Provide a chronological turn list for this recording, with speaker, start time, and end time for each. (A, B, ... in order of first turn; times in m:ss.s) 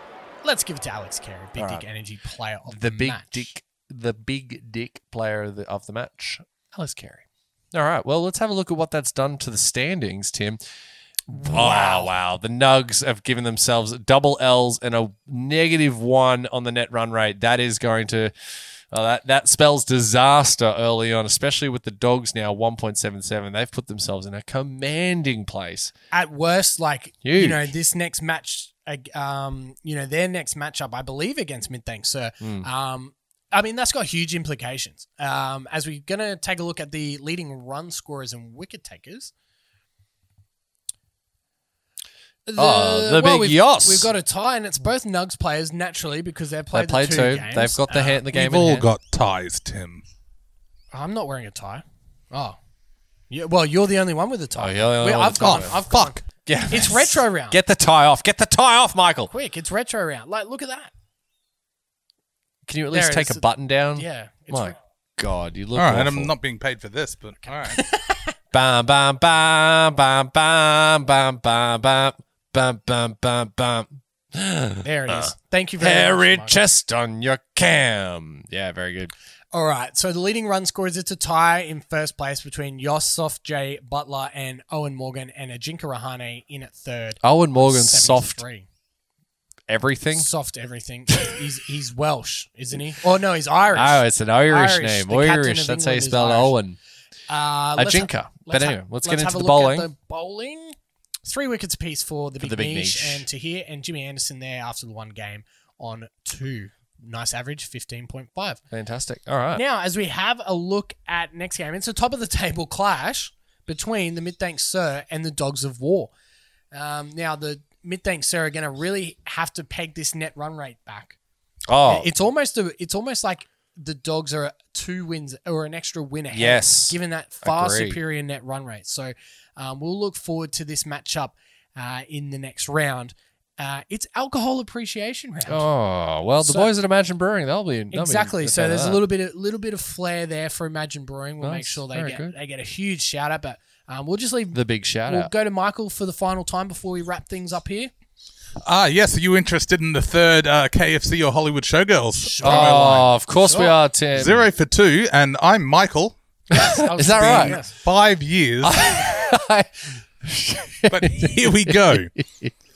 0:00.4-0:03.5 A
0:01.6-0:01.8 B
0:02.7-0:10.6 B
0:11.3-0:18.3 B
0:11.3-0:12.1 A
0:18.9-0:25.9 B
0:26.1-0:39.3 A
0:27.2-0:27.7 B
0:32.4-0:32.7 B
0:42.5-0:48.2 A
0:42.6-0:44.1 B
0:46.7-0:48.9 B
0:48.3-0:50.0 C
0:50.9-0:52.6 A
0:53.3-0:57.6 A
0:54.6-0:55.8 B
0:55.4-0:56.2 C
0:56.4-0:59.3 B
0:59.3-1:00.9 A
1:02.6-1:06.3 B
1:02.9-1:04.8 A
1:05.7-1:07.8 C
1:07.6-1:08.4 A
1:08.5-1:19.1 B
1:14.8-1:16.6 A
1:19.5-1:28.7 A
1:27.2-1:28.4 B
1:29.7-1:30.3 B
1:30.1-1:36.5 A
1:33.7-1:36.8 B
1:37.3-1:48.6 A
1:37.8-1:39.9 B
1:42.4-1:43.2 B
1:48.7-1:49.6 B
1:49.5-1:56.1 A
1:56.7-2:01.2 A
2:01.7-2:02.1 B
2:01.8-2:15.7 A
2:06.3-2:08.0 B
2:15.4-2:19.0 B
2:16.4-2:16.7 A
2:17.9-2:27.9 A
2:21.4-2:22.3 B
2:24.5-2:25.3 B
2:28.6-2:33.0 C
2:32.2-2:33.8 A
2:32.4-2:34.5 B
2:34.1-2:36.2 C
2:36.5-2:37.6 B
2:36.5-2:37.7 A
2:37.1-2:39.1 C
2:38.6-2:42.5 B
2:40.9-2:42.1 C